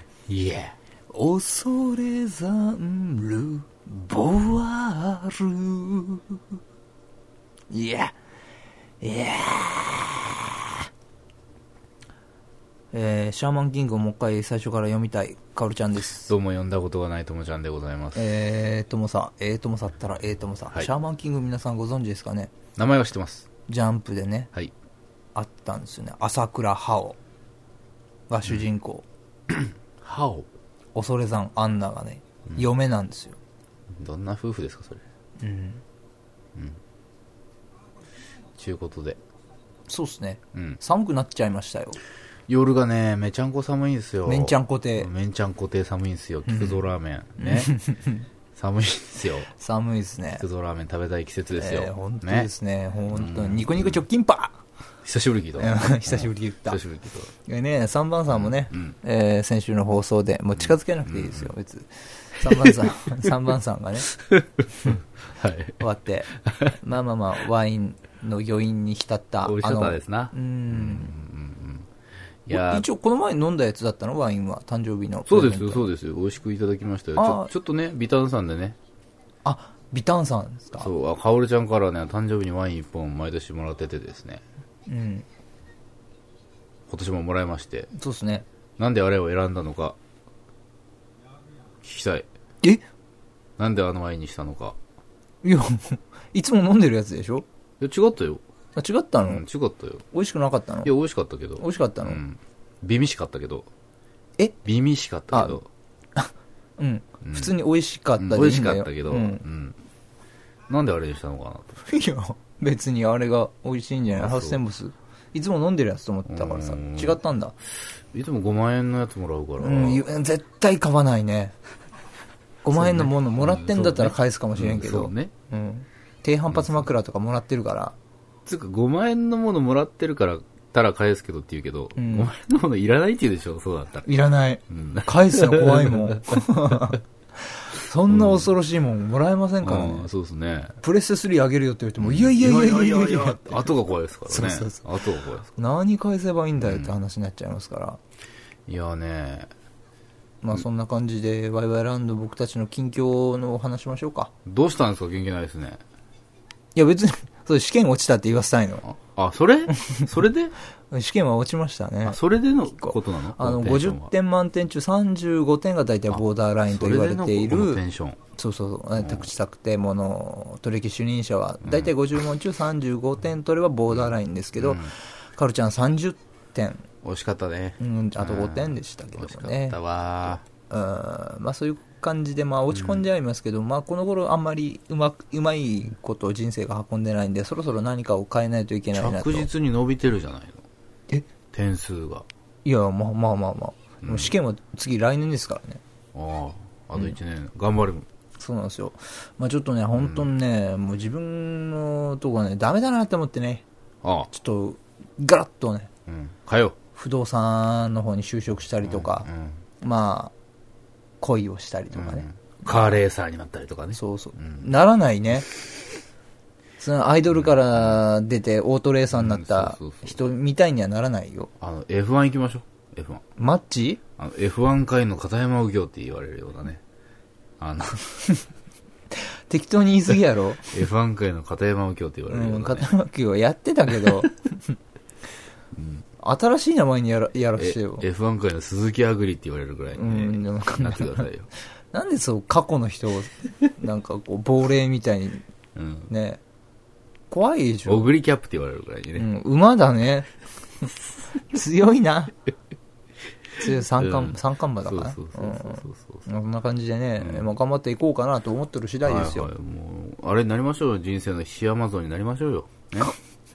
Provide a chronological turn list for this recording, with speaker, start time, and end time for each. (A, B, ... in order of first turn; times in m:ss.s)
0:00.3-0:00.8 A
0:01.1-0:06.6 B
0:07.7-0:08.2 B
0:09.0-0:10.9 B
0:12.9-0:16.3 B
0:16.2-0:18.3 A
0:18.2-0:22.5 B
0:22.8-0:23.5 A
0:23.7-0:24.5 B
0:25.4-0:27.2 B
0:28.3-0:29.0 B
0:29.5-0:30.5 A
0:31.0-0:33.4 B
0:34.0-0:35.0 A
0:35.4-0:35.8 B
0:38.6-0:39.2 A
0:39.9-0:42.0 B
0:40.5-0:40.8 A
0:42.5-0:47.7 A
0:44.3-0:45.1 B
0:46.5-0:46.9 B
0:47.4-0:48.3 B
0:48.6-0:49.5 A
0:49.5-0:50.4 B
0:50.4-0:52.5 A
0:51.5-0:54.6 B
0:53.1-0:54.1 A
0:55.0-0:57.3 A
0:55.6-0:56.8 B
0:57.4-1:04.1 B
0:58.3-0:59.0 A
1:00.6-1:01.5 A
1:02.6-1:03.0 A
1:04.1-1:05.8 A
1:05.8-1:11.1 B
1:06.4-1:06.8 A
1:09.4-1:11.9 A
1:12.5-1:12.9 A
1:12.5-1:15.9 B
1:15.3-1:18.8 A
1:17.2-1:17.5 B
1:19.4-1:20.9 B
1:20.8-1:24.4 A
1:24.9-1:25.2 B
1:26.9-1:27.9 A
1:27.9-1:28.4 B
1:28.8-1:30.0 A
1:31.8-1:32.3 A
1:33.6-1:34.8 A
1:35.4-1:37.5 B
1:37.8-1:38.4 A
1:38.8-1:39.4 B
1:39.2-1:40.0 A
1:40.1-1:40.9 B
1:40.8-1:43.7 A
1:41.6-1:42.2 B
1:44.6-1:45.7 A
1:45.3-1:45.6 B
1:46.2-1:49.4 B
1:47.2-1:47.5 A
1:48.2-1:49.8 A
1:50.7-1:51.8 A
1:51.9-1:57.6 B
1:54.1-1:54.6 A
1:56.3-1:57.2 A
1:57.9-2:00.1 A
1:59.6-2:01.6 B
2:02.6-2:08.0 B
2:02.7-2:05.3 A
2:06.5-2:06.9 A
2:08.5-2:14.1 A
2:12.0-2:12.3 B
2:14.1-2:20.1 B
2:14.7-2:16.8 A
2:18.1-2:18.5 A
2:19.6-2:20.8 A
2:20.8-2:23.7 B
2:22.0-2:25.5 A
2:24.3-2:24.9 B
2:25.5-2:28.0 B
2:26.6-2:26.9 A
2:28.7-2:29.5 A
2:30.4-2:34.3 B
2:34.5-2:35.8 A
2:36.8-2:38.9 B
2:38.9-2:40.6 A
2:39.8-2:40.1 B
2:40.9-2:47.8 B
2:42.1-2:44.1 A
2:46.1-2:48.2 A
2:48.4-2:56.9 B
2:49.0-2:49.3 A
2:51.6-2:51.9 A
2:53.9-2:54.9 A
2:57.0-3:00.4 A
2:57.8-3:09.5 B
3:02.7-3:03.1 A
3:08.9-3:10.6 A
3:11.5-3:12.3 A
3:12.6-3:15.8 B
3:14.0-3:14.3 A
3:16.1-3:18.1 A
3:18.4-3:23.6 B
3:20.0-3:20.3 A
3:24.0-3:24.3 A
3:24.3-3:25.9 B
3:26.1-3:26.8 A
3:27.0-3:29.3 B
3:28.8-3:29.6 A
3:29.8-3:30.3 B
3:31.2-3:32.3 B
3:31.9-3:34.7 A
3:33.9-3:35.5 B
3:36.8-3:41.5 B
3:37.3-3:38.0 A
3:39.1-3:40.2 A
3:41.6-3:43.2 A
3:43.4-3:44.0 B
3:44.2-3:46.8 A
3:47.6-3:48.2 A
3:49.1-3:50.8 B
3:50.7-3:52.9 A
3:52.3-3:54.8 B
3:55.8-3:56.0 A
3:56.2-3:58.0 B
3:57.6-4:01.5 A
4:00.0-4:01.3 B
4:01.9-4:05.4 B
4:05.8-4:06.1 A
4:06.1-4:06.4 B
4:07.3-4:08.1 B
4:07.9-4:09.3 A
4:09.2-4:10.3 B
4:11.5-4:12.4 B
4:13.6-4:19.5 B
4:14.0-4:16.3 A
4:17.2-4:17.5 A
4:19.0-4:23.1 A